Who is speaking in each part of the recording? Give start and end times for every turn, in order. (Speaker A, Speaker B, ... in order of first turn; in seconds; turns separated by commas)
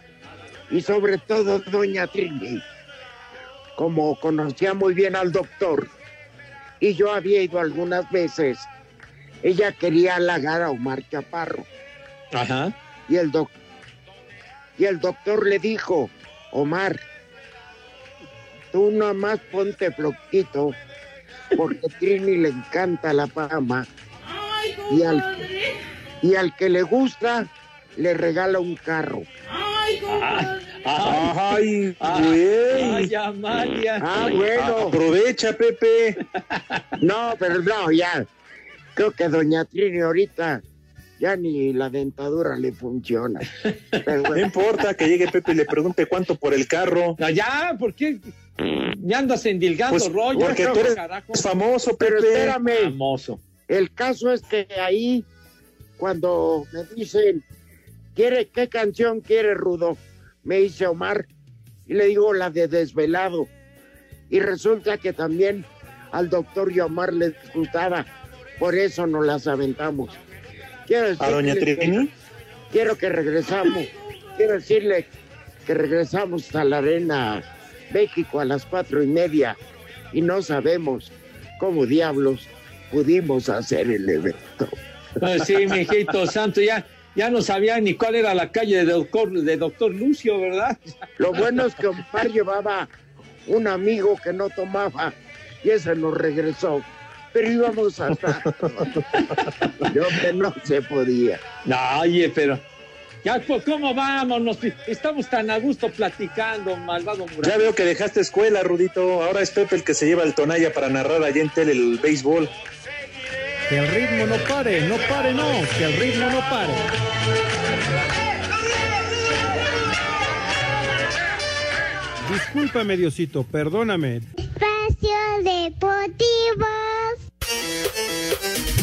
Speaker A: 0.7-2.6, Speaker A: 3.8-5.9, Speaker A: 6.8-8.7, Speaker A: 9.4-11.7, Speaker B: 12.3-12.7, Speaker A: 13.1-13.5, Speaker A: 14.8-17.0, Speaker A: 18.7-20.8, Speaker A: 21.5-23.9, Speaker A: 24.9-25.4, Speaker A: 26.2-29.3, Speaker B: 30.1-31.3, Speaker C: 31.0-33.1, Speaker B: 32.0-34.4, Speaker A: 34.0-35.0, Speaker C: 34.5-36.2, Speaker A: 37.0-38.3, Speaker A: 39.0-40.6, Speaker A: 41.2-43.5, Speaker A: 44.0-44.4, Speaker C: 44.3-47.2, Speaker B: 47.2-51.4, Speaker C: 49.9-52.6, Speaker A: 50.3-50.9, Speaker A: 52.0-52.9, Speaker B: 52.6-53.4, Speaker A: 53.7-55.2, Speaker A: 56.0-57.4, Speaker A: 58.1-61.3, Speaker A: 61.9-63.5, Speaker A: 64.3-68.1, Speaker A: 68.6-70.2, Speaker A: 70.9-72.0, Speaker C: 71.2-72.1, Speaker A: 72.7-75.1, Speaker A: 75.7-79.6, Speaker A: 80.1-84.7, Speaker B: 85.2-90.8, Speaker A: 91.2-92.9, Speaker A: 93.5-99.0, Speaker A: 99.9-101.4, Speaker B: 101.6-102.6, Speaker B: 103.2-107.7, Speaker C: 107.4-112.5, Speaker D: 113.7-116.9, Speaker D: 122.2-124.2, Speaker E: 124.4-127.2